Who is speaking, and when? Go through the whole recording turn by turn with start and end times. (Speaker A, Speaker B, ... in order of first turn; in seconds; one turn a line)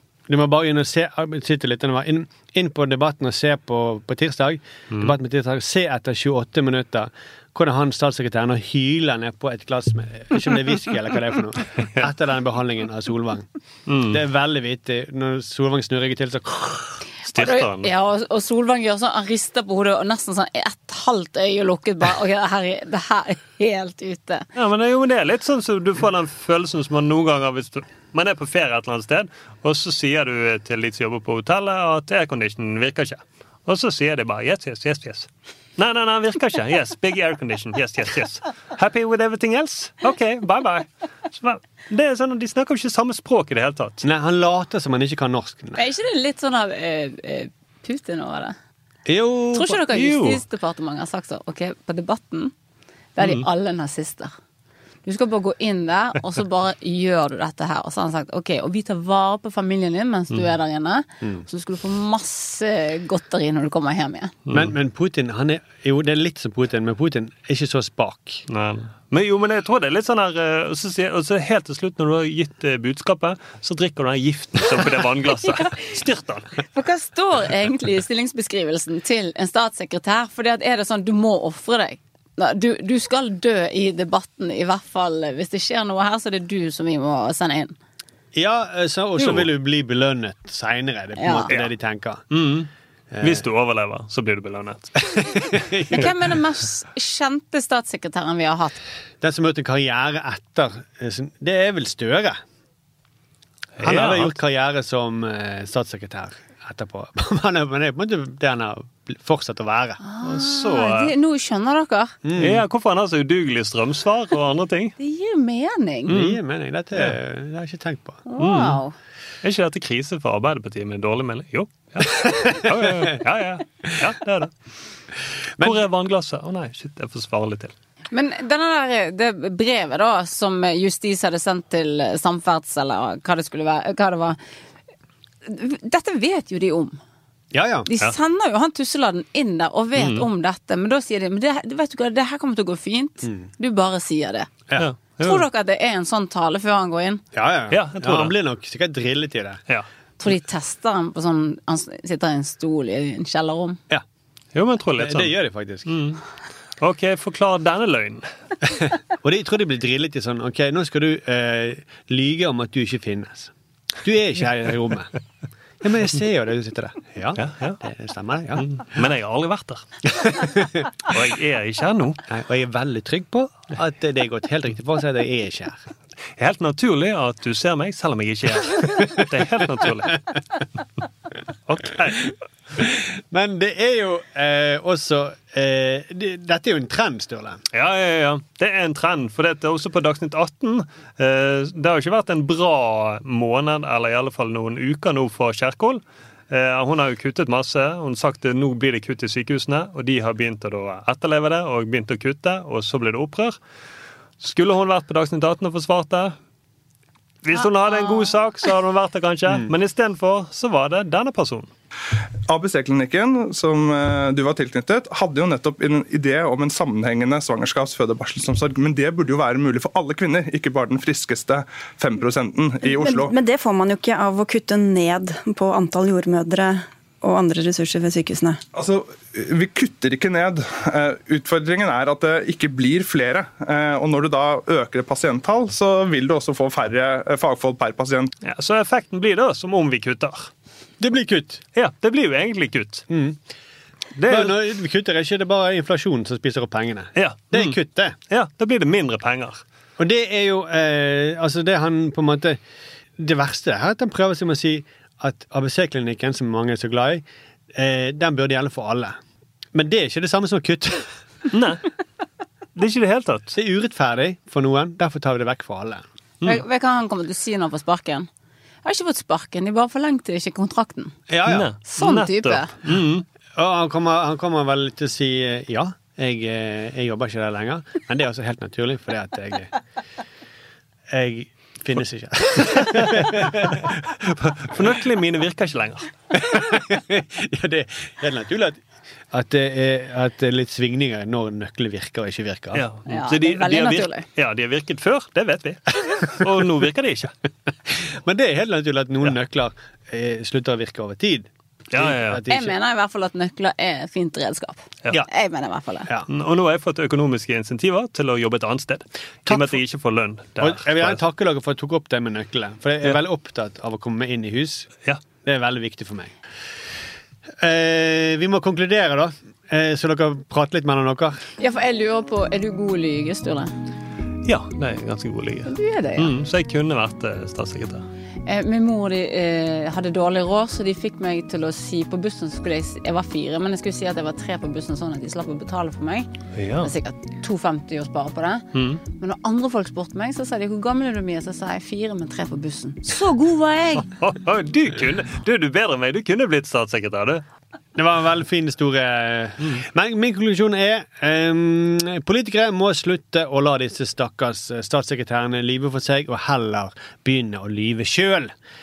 Speaker A: 0.3-13.5
Speaker B: 13.9-14.2
Speaker A: 14.1-16.8
Speaker B: 17.3-17.9
Speaker C: 17.3-24.4
Speaker B: 24.5-44.0
Speaker A: 44.0-45.8
Speaker C: 45.7-48.5
Speaker A: 49.1-49.7
Speaker C: 49.5-52.5
Speaker B: 49.8-50.4
Speaker C: 53.1-54.3
Speaker C: 55.0-64.3
Speaker B: 64.5-64.7
Speaker A: 64.5-68.4
Speaker B: 68.5-76.5
Speaker C: 76.7-87.7
Speaker A: 88.3-92.2
Speaker B: 89.2-89.5
Speaker C: 91.2-91.5
Speaker B: 92.3-92.7
Speaker A: 93.1-93.4
Speaker B: 93.2-95.0
Speaker A: 95.1-96.1
Speaker C: 95.9-98.8
Speaker A: 99.2-102.4
Speaker B: 103.8-104.3
Speaker A: 103.8-110.0
Speaker C: 110.0-112.1
Speaker B: 110.2-111.1
Speaker A: 112.2-112.6
Speaker B: 112.4-114.9
Speaker C: 115.0-116.1
Speaker B: 116.1-116.4
Speaker A: 116.1-118.2
Speaker C: 118.3-118.9
Speaker B: 118.4-118.8
Speaker B: 119.4-124.5
Speaker A: 122.2-123.1
Speaker B: 125.6-127.7
Speaker C: 128.1-134.4
Speaker C: 135.4-137.0
Speaker A: 137.5-137.9
Speaker C: 137.9-144.5
Speaker B: 139.9-140.3
Speaker A: 143.2-143.5
Speaker B: 144.8-145.4
Speaker C: 145.2-147.2
Speaker A: 147.3-149.6
Speaker B: 147.7-148.3
Speaker C: 150.2-153.8
Speaker B: 154.5-155.3
Speaker A: 155.0-155.9
Speaker B: 155.8-156.2
Speaker B: 156.8-158.3
Speaker A: 158.8-165.1
Speaker A: 165.8-168.6
Speaker B: 167.4-167.8
Speaker B: 168.6-169.8
Speaker A: 170.2-170.8
Speaker B: 171.1-172.2
Speaker A: 172.3-175.8
Speaker B: 176.4-180.2
Speaker B: 181.7-182.3
Speaker A: 182.8-187.6
Speaker B: 187.7-203.6
Speaker B: 204.4-206.3
Speaker B: 207.4-211.7
Speaker C: 207.5-208.3
Speaker D: 212.5-223.3
Speaker E: 222.9-228.6
Speaker D: 228.7-238.3
Speaker B: 238.4-240.5
Speaker A: 241.0-241.6
Speaker B: 241.7-243.1
Speaker A: 243.1-243.4
Speaker B: 244.2-244.6
Speaker A: 244.3-248.1
Speaker B: 247.2-247.8
Speaker B: 248.3-249.6
Speaker A: 250.0-252.6
Speaker A: 253.2-259.2
Speaker A: 259.7-261.1
Speaker B: 261.5-261.8
Speaker B: 262.8-263.5
Speaker A: 263.5-266.0
Speaker C: 266.4-268.3
Speaker C: 268.8-271.1
Speaker A: 271.3-271.7
Speaker B: 271.4-273.2
Speaker C: 271.9-272.7
Speaker A: 273.6-279.7
Speaker A: 281.1-283.9
Speaker B: 282.6-286.1
Speaker A: 286.3-288.8
Speaker A: 289.3-292.8
Speaker B: 292.7-297.3
Speaker C: 293.1-294.2
Speaker A: 297.9-302.7
Speaker B: 301.9-302.4
Speaker C: 302.5-306.1
Speaker B: 306.3-311.2
Speaker A: 309.4-309.8
Speaker A: 310.6-314.9
Speaker A: 315.4-316.3
Speaker A: 317.6-321.4
Speaker C: 321.6-323.7
Speaker B: 324.4-328.1
Speaker C: 325.7-326.3
Speaker C: 328.4-336.3
Speaker B: 336.5-336.9
Speaker C: 336.8-344.0
Speaker B: 338.7-339.0
Speaker B: 343.9-347.4
Speaker A: 347.9-358.5